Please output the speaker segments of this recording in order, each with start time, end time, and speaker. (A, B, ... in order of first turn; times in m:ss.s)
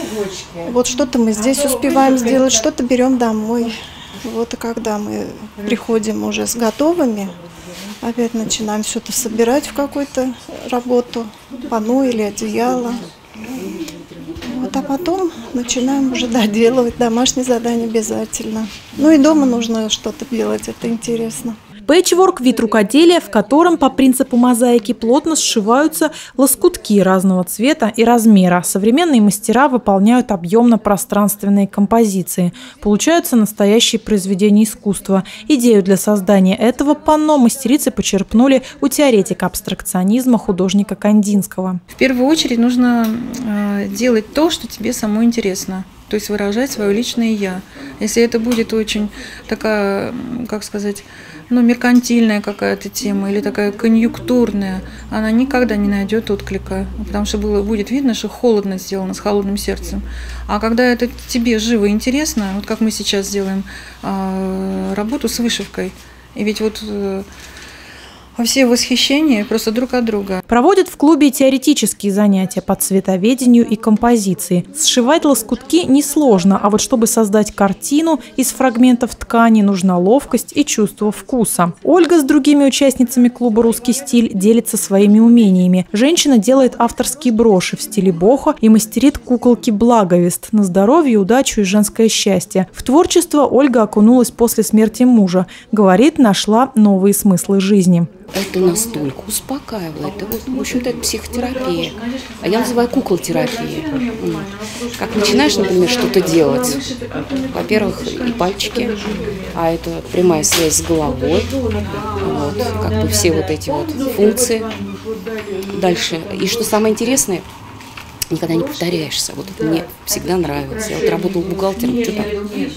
0:00.6-0:07.3 A
0:08.0-0:13.0 A
0:14.4-0:21.6 A
0:21.9-0:41.8 B
0:42.0-1:07.3 C
1:08.4-1:10.4 C
1:10.5-1:38.1 B
1:38.3-1:46.9 D
1:44.7-1:49.5 C
1:47.5-1:49.0 D
1:49.5-1:54.7 D
1:55.6-1:57.5 D
1:58.3-2:02.6 D